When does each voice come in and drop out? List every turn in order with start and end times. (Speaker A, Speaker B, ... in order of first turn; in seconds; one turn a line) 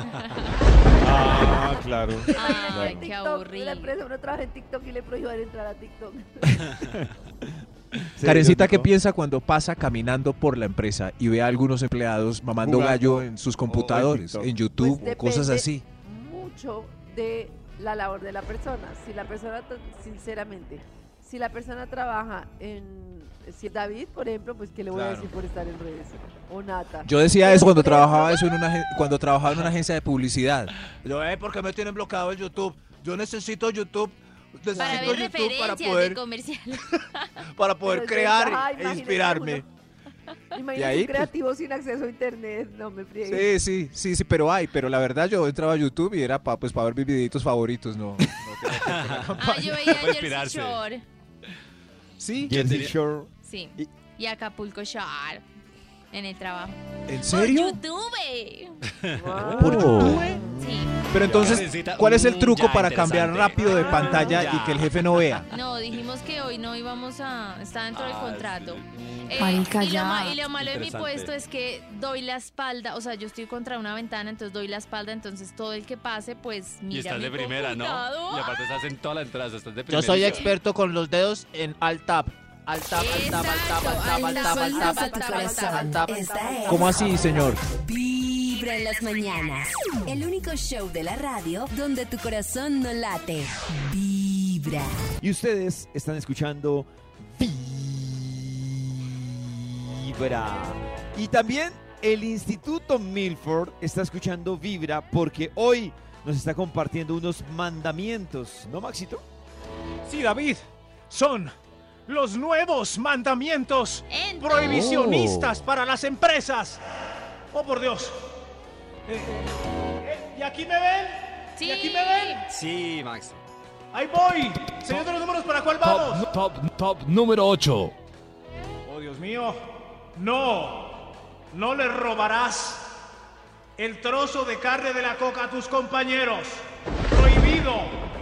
Speaker A: 0.1-0.5
Speaker B: 0.8-6.7
Speaker C: 1.0-3.1
Speaker A: 2.3-4.0
Speaker C: 6.8-7.1
Speaker C: 8.0-8.9
Speaker D: 8.2-15.8
Speaker C: 12.6-14.5
Speaker B: 14.8-28.5
Speaker D: 24.9-25.3
Speaker D: 27.1-36.2
Speaker B: 34.7-35.2
Speaker A: 34.8-37.4
Speaker D: 37.5-39.6
Speaker B: 37.9-39.6
Speaker B: 40.5-43.5
Speaker D: 40.8-41.3
Speaker D: 43.3-50.0
Speaker E: 48.7-50.8
Speaker A: 49.4-51.0
Speaker D: 52.2-52.8
Speaker C: 52.5-53.9
Speaker E: 52.5-53.0
Speaker A: 53.4-55.5
Speaker A: 56.1-58.8
Speaker D: 57.1-57.8
Speaker E: 59.0-59.7
Speaker B: 59.1-60.6
Speaker D: 59.6-60.4
Speaker F: 60.1-60.3
Speaker A: 60.2-61.1
Speaker D: 61.1-65.5
Speaker E: 61.1-65.4
Speaker A: 63.6-64.2
Speaker B: 63.9-64.4
Speaker A: 65.5-78.6
Speaker E: 67.9-69.8
Speaker E: 70.4-71.3
Speaker E: 76.9-80.5
Speaker G: 79.9-86.3
Speaker A: 80.2-80.5
Speaker A: 83.0-86.0
Speaker H: 84.2-95.0
Speaker B: 84.5-87.6
Speaker D: 86.7-87.6
Speaker C: 95.2-109.2
Speaker F: 110.1-111.5
Speaker F: 112.1-116.8
Speaker A: 114.1-115.1
Speaker F: 117.5-118.2
Speaker F: 119.1-119.4
Speaker F: 120.0-122.4
Speaker A: 121.6-122.4
Speaker E: 122.5-123.4
Speaker F: 123.9-126.3
Speaker I: 125.8-127.9
Speaker F: 128.9-129.6
Speaker F: 130.2-132.9
Speaker F: 133.8-138.0